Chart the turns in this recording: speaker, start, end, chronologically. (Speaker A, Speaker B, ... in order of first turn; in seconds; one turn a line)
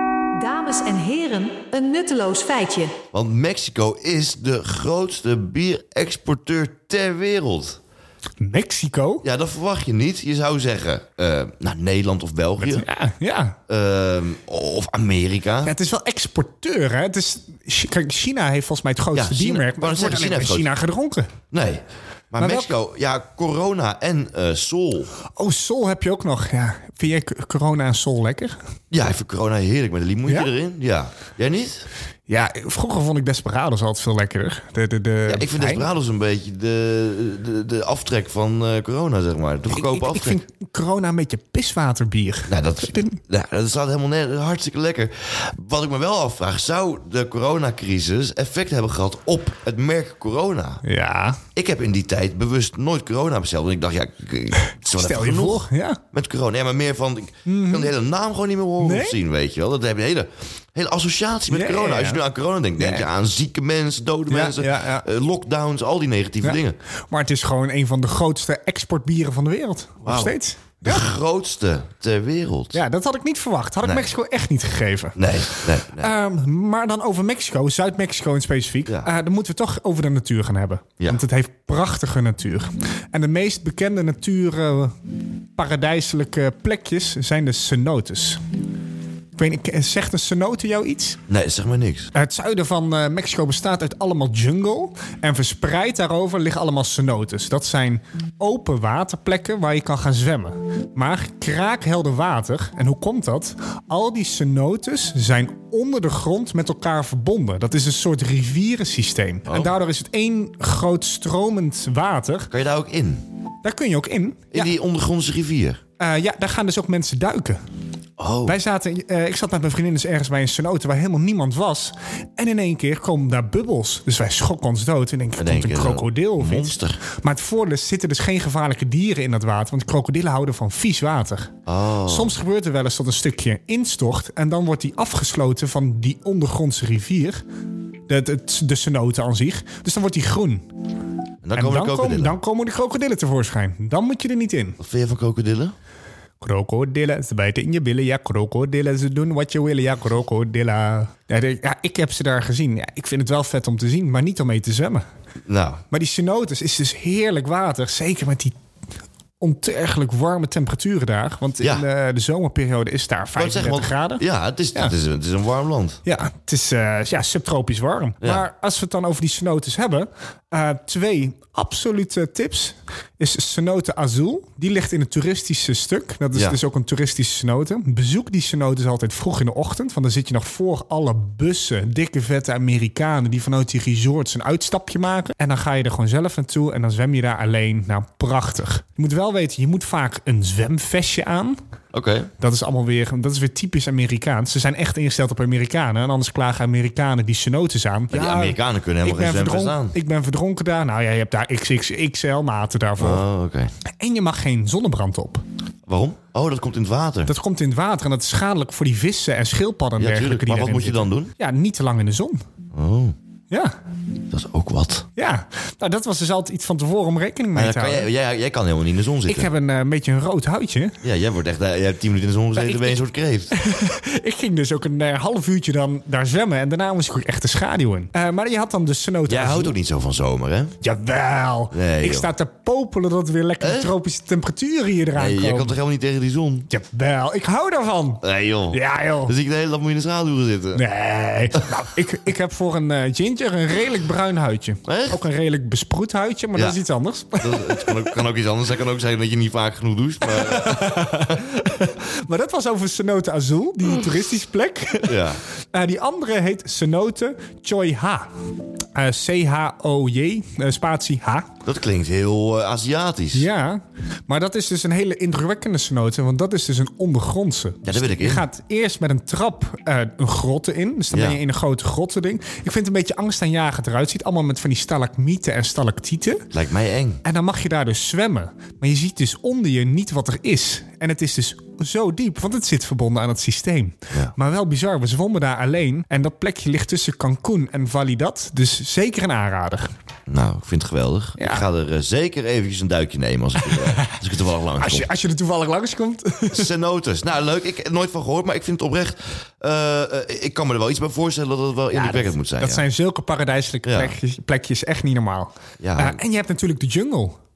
Speaker A: 0.3-3.0
Speaker B: 3.1-7.8
Speaker C: 8.4-9.2
Speaker B: 9.2-12.8
Speaker C: 12.6-13.6
Speaker B: 13.7-15.7
Speaker C: 15.6-21.3
Speaker B: 19.1-20.7
Speaker B: 21.5-25.1
Speaker C: 22.4-22.7
Speaker C: 25.4-28.6
Speaker B: 28.9-31.9
Speaker C: 32.3-35.9
Speaker B: 35.2-40.4
Speaker C: 39.7-43.2
Speaker B: 42.5-50.8
Speaker C: 50.8-51.4
Speaker B: 51.5-66.8
Speaker C: 54.9-56.0
Speaker C: 57.5-57.9
Speaker C: 58.8-59.2
Speaker C: 61.5-62.2
Speaker C: 62.8-63.1
Speaker C: 64.3-65.0
Speaker C: 66.4-71.1
Speaker B: 70.0-72.8
Speaker C: 72.7-84.9
Speaker B: 73.8-74.1
Speaker B: 75.2-76.1
Speaker C: 85.6-88.4
Speaker C: 89.3-91.2
Speaker B: 91.3-92.1
Speaker C: 92.1-112.5
Speaker B: 109.5-109.7
Speaker B: 112.5-113.2
Speaker C: 113.6-114.7
Speaker B: 114.5-115.8
Speaker C: 116.0-117.6
Speaker B: 118.2-118.5
Speaker C: 118.5-131.5
Speaker B: 125.4-127.0
Speaker B: 131.7-132.3
Speaker C: 132.1-137.4
Speaker C: 138.1-140.6
Speaker B: 141.4-142.3
Speaker C: 141.5-144.8
Speaker B: 144.8-145.7
Speaker C: 146.4-155.1
Speaker B: 155.4-155.8
Speaker C: 155.9-158.5
Speaker C: 159.4-164.2
Speaker B: 163.3-166.0
Speaker C: 166.0-191.6
Speaker B: 191.9-192.3
Speaker C: 192.4-203.2
Speaker B: 198.1-199.9
Speaker B: 203.0-203.7
Speaker C: 204.0-205.4
Speaker B: 205.8-207.3
Speaker C: 207.3-212.4
Speaker B: 210.0-211.3
Speaker B: 212.7-213.1
Speaker B: 214.3-215.1
Speaker C: 215.2-218.1
Speaker B: 217.5-219.5
Speaker C: 219.3-221.0
Speaker B: 221.0-223.5
Speaker C: 222.6-229.7
Speaker B: 229.3-230.8
Speaker C: 230.8-235.8
Speaker B: 231.7-232.3
Speaker B: 233.6-233.9
Speaker B: 235.1-236.7
Speaker C: 236.7-239.3
Speaker B: 238.2-240.8
Speaker C: 240.7-248.2
Speaker B: 244.8-245.2
Speaker B: 247.4-251.4
Speaker C: 250.2-255.2
Speaker B: 255.1-255.4
Speaker C: 255.7-258.3
Speaker C: 258.9-261.5
Speaker B: 261.6-263.5
Speaker C: 263.3-276.4
Speaker B: 267.8-268.4
Speaker B: 271.1-271.4
Speaker B: 276.5-277.2
Speaker C: 277.2-289.9
Speaker B: 290.3-295.1
Speaker C: 291.4-291.6
Speaker C: 293.6-294.1
Speaker C: 294.8-296.7
Speaker B: 296.5-302.8
Speaker C: 301.9-307.4
Speaker B: 303.8-304.1
Speaker B: 305.8-306.2